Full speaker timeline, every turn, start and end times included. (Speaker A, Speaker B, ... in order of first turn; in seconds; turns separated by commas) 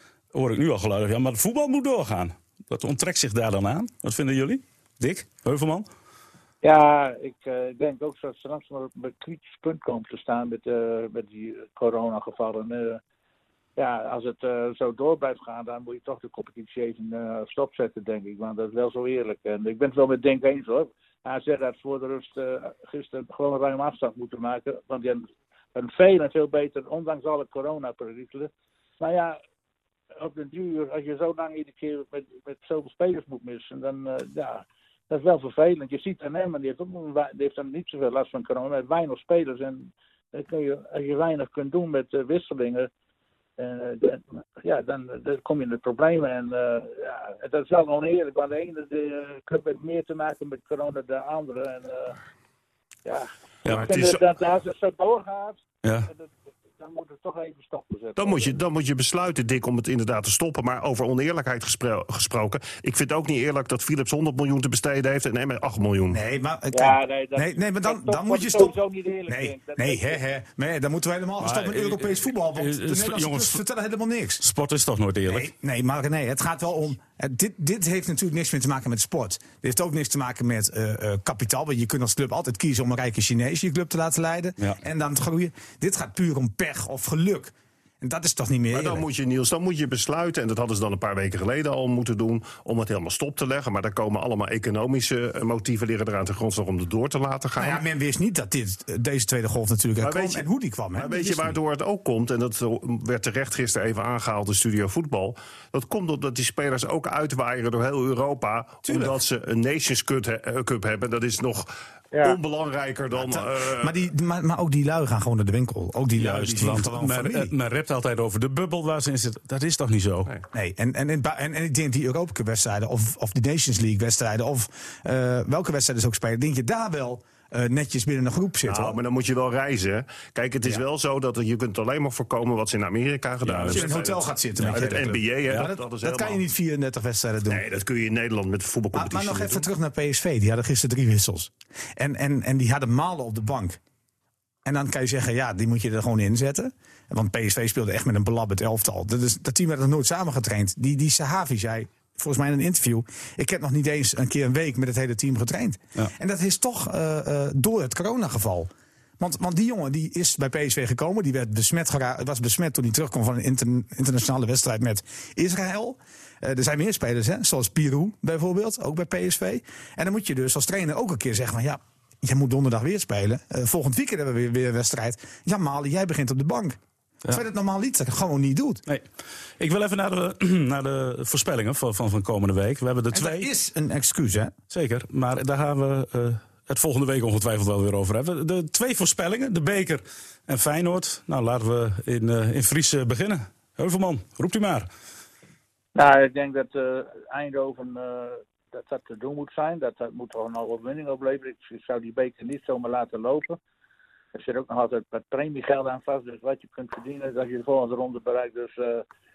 Speaker A: 0.3-5.8, Speaker B: 6.6-13.0, Speaker B: 13.8-29.4, Speaker B: 30.2-42.9, Speaker B: 43.6-52.2, Speaker B: 53.0-58.5, Speaker A: 53.6-53.9, Speaker C: 53.6-54.2, Speaker A: 55.8-56.1, Speaker C: 58.2-66.2, Speaker D: 66.1-68.8, Speaker B: 66.7-70.2, Speaker D: 69.3-74.4, Speaker A: 71.4-73.6, Speaker A: 74.4-75.5, Speaker D: 75.2-89.0, Speaker C: 88.7-97.8, Speaker D: 97.6-101.6, Speaker C: 100.0-113.9, Speaker D: 108.8-109.2, Speaker B: 112.1-112.4, Speaker D: 113.1-117.5, Speaker A: 116.1-120.3, Speaker D: 120.5-129.0, Speaker C: 128.7-136.4, Speaker A: 133.4-133.9, Speaker D: 133.6-137.6, Speaker A: 134.6-135.7, Speaker C: 137.5-139.7, Speaker D: 138.9-143.8, Speaker D: 144.6-176.8, Speaker D: 177.3-178.8, Speaker A: 178.9-183.5, Speaker D: 183.1-184.5, Speaker A: 184.7-194.9, Speaker B: 195.9-203.6, Speaker B: 204.3-209.0